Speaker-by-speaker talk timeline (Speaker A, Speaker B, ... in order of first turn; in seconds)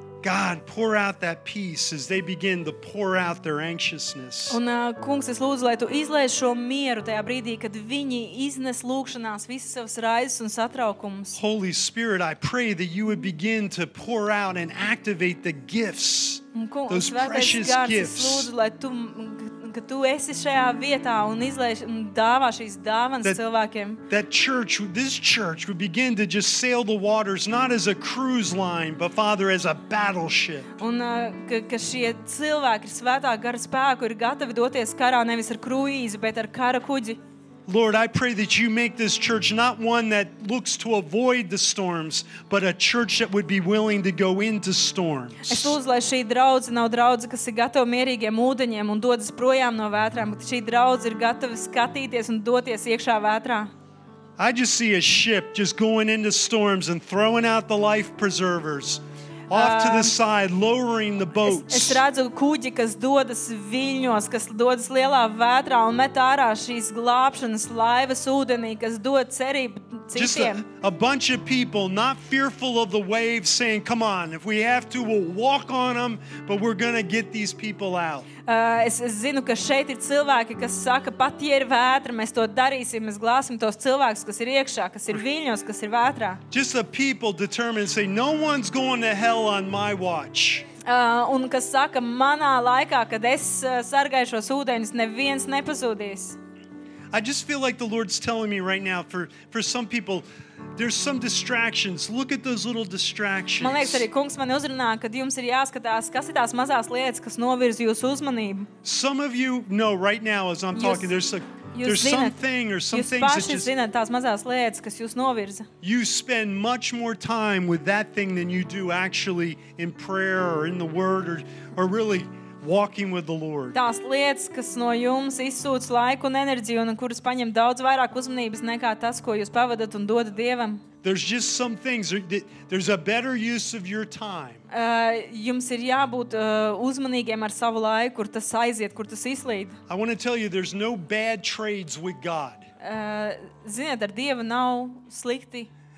Speaker A: 0.2-4.6, 11.3-18.5, 24.1-30.8, 37.7-45.8, 54.4-62.0, 70.1-78.3, 86.5-90.7, 97.1-104.1, 108.8-113.7, 115.8-123.8, 131.0-134.6, 139.9-142.7
Speaker B: 4.5-11.4, 16.5-24.0, 30.8-37.2, 45.5-53.7, 59.5-60.2, 61.4-70.7, 78.5-86.4, 90.8-96.4, 103.6-108.7, 110.8-111.1, 111.7-115.7, 123.7-130.8, 134.7-139.8, 142.8-145.7